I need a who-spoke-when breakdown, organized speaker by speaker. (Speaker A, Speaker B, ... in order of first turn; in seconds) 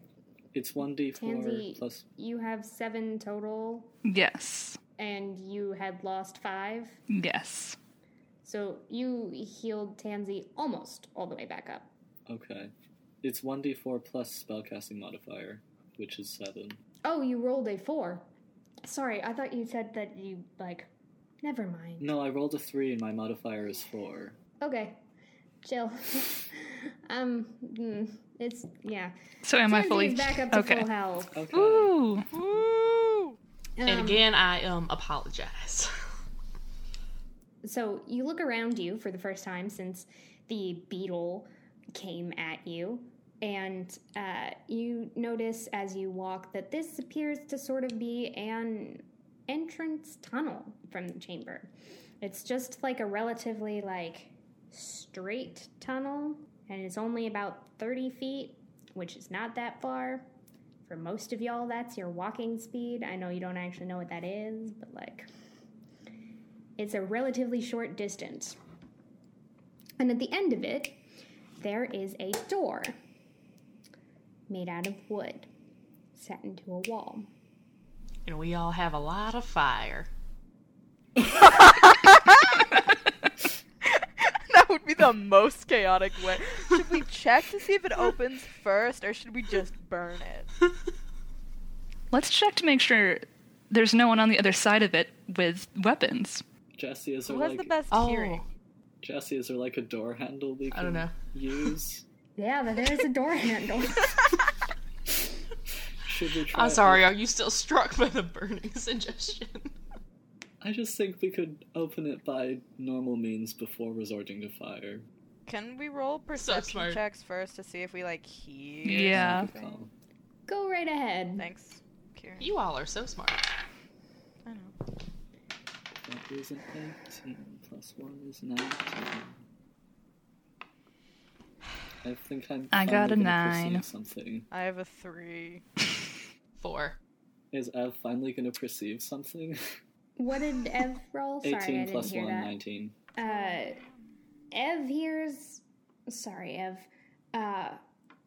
Speaker A: 0.5-2.0, 12.3-12.7, 13.2-16.8, 22.0-24.4, 31.4-31.9, 96.7-97.7, 99.0-102.0, 106.0-107.1, 110.6-115.0, 118.9-119.9, 126.0-129.4, 132.0-134.5, 137.5-139.8, 141.4-142.9
Speaker B: 1.1-3.9, 5.0-7.0, 8.4-11.9, 17.1-18.3, 18.8-20.9, 21.4-22.1, 24.6-25.0, 25.6-29.1, 29.6-31.4, 33.8-34.3, 37.6-51.7, 52.2-60.3, 60.9-65.3, 66.8-68.6, 70.0-71.0, 71.6-73.0, 74.5-75.5, 76.1-77.3, 102.4-104.1, 120.5-121.5, 140.2-142.6, 143.2-143.8, 144.5-147.8
Speaker C: 4.0-4.8, 7.1-7.8, 29.4-30.9, 31.5-32.3, 92.1-96.4, 118.8-119.5, 132.7-133.8
Speaker D: 32.3-33.4, 81.3-82.6, 83.8-90.5, 97.3-98.5, 115.5-119.8, 121.4-122.5, 124.5-124.7, 134.5-135.6, 143.3-143.6
Speaker E: 33.8-35.9, 78.2-80.1, 97.9-98.5, 100.7-101.1, 106.5-109.8, 116.3-117.0, 122.4-123.4, 136.6-137.0